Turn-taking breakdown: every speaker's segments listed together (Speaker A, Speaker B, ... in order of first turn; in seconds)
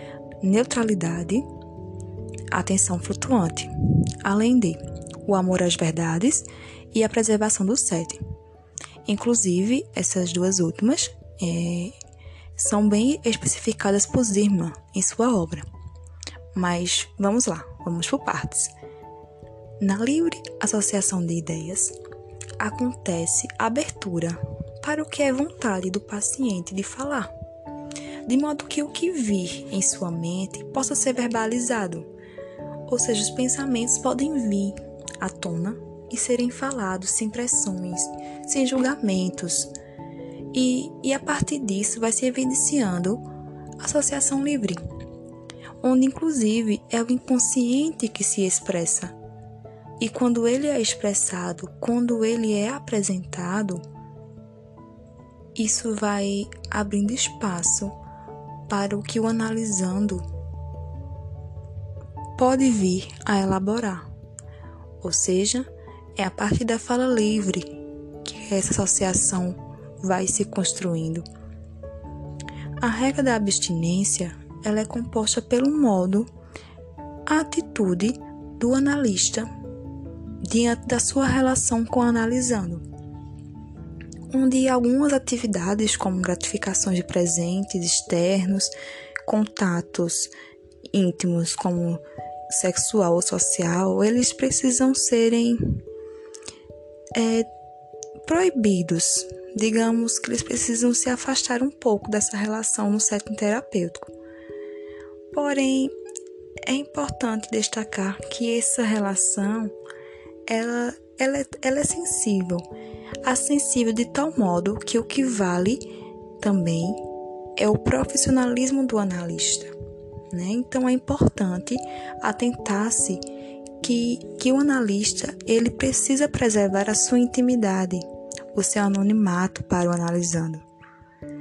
Speaker A: 0.4-1.5, 2.5-8.2, 9.1-11.9, 12.6-15.7, 16.5-18.7, 19.8-22.0, 22.6-27.3, 28.2-32.1, 32.9-39.7, 40.5-43.2, 43.8-44.8, 45.8-49.1, 50.0-53.8, 55.5-58.0, 58.7-60.2, 62.4-64.0, 65.0-71.3, 72.8-76.3, 77.3-79.5, 80.4-82.8, 84.3-88.7, 89.2-90.3, 90.9-95.8, 97.1-97.5, 98.2-104.1, 105.3-105.9, 106.7-109.7, 110.5-112.7, 113.2-115.8, 116.4-117.0, 117.6-119.7, 120.3-123.2, 123.8-130.6